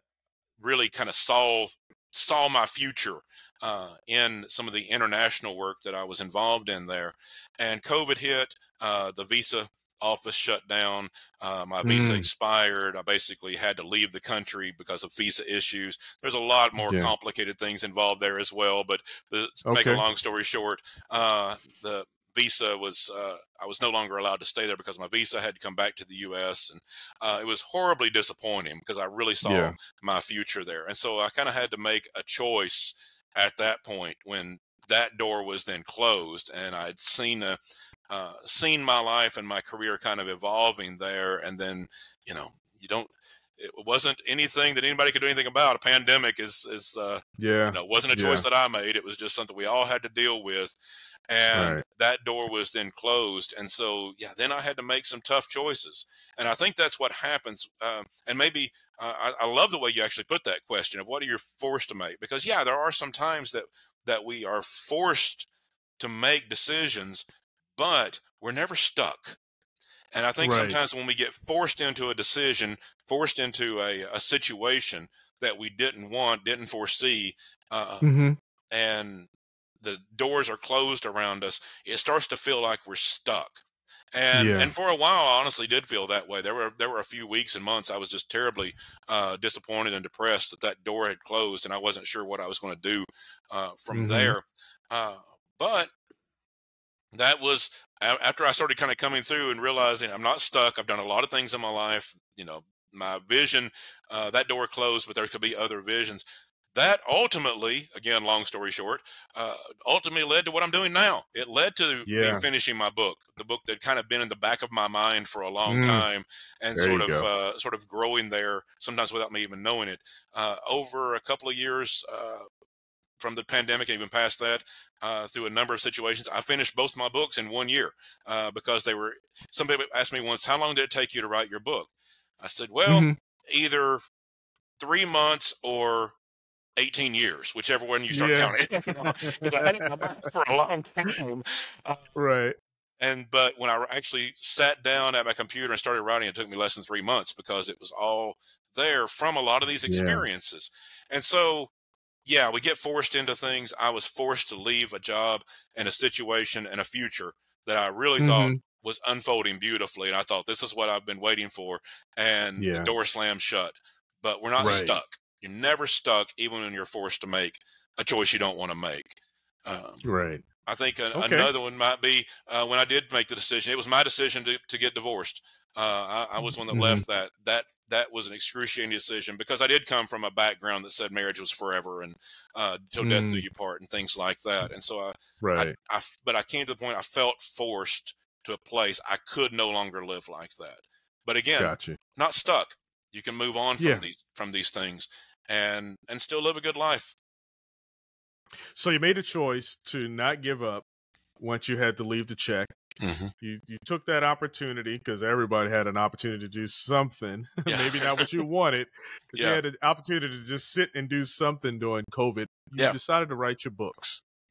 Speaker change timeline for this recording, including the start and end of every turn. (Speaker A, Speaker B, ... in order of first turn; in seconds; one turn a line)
Speaker A: 0.6-50.8
Speaker B: 11.8-12.3
Speaker B: 16.8-17.1
Speaker B: 19.6-20.0
Speaker B: 29.4-29.8
Speaker B: 47.4-48.5
Speaker A: 51.3-65.5
Speaker B: 51.5-51.8
Speaker A: 66.0-69.4
Speaker A: 70.1-78.1
Speaker B: 70.4-70.8
Speaker B: 78.0-78.4
Speaker A: 78.7-79.3
Speaker A: 79.8-95.9
Speaker B: 84.3-84.7
Speaker B: 93.9-94.4
Speaker A: 97.1-106.2
Speaker A: 106.7-122.5
Speaker B: 112.1-112.5
Speaker B: 115.7-116.1
Speaker B: 116.7-117.3
Speaker A: 123.2-134.0
Speaker B: 132.9-133.2
Speaker A: 134.8-136.2
Speaker A: 136.8-142.0
Speaker B: 138.1-140.2
Speaker B: 142.2-142.6
Speaker A: 143.0-151.7
Speaker B: 149.9-150.2
Speaker A: 152.2-170.1
Speaker B: 158.2-158.6
Speaker B: 162.6-162.9
Speaker B: 164.6-165.0
Speaker B: 170.0-170.4
Speaker A: 170.6-197.2
Speaker B: 171.1-171.5
Speaker B: 176.7-177.0
Speaker B: 183.0-183.4
Speaker B: 185.4-185.8
Speaker B: 191.6-192.0
Speaker B: 193.8-194.1
Speaker B: 198.8-200.8
Speaker B: 201.4-202.8
Speaker A: 203.0-203.3
Speaker B: 203.4-214.2
Speaker A: 207.7-208.3
Speaker A: 209.3-209.6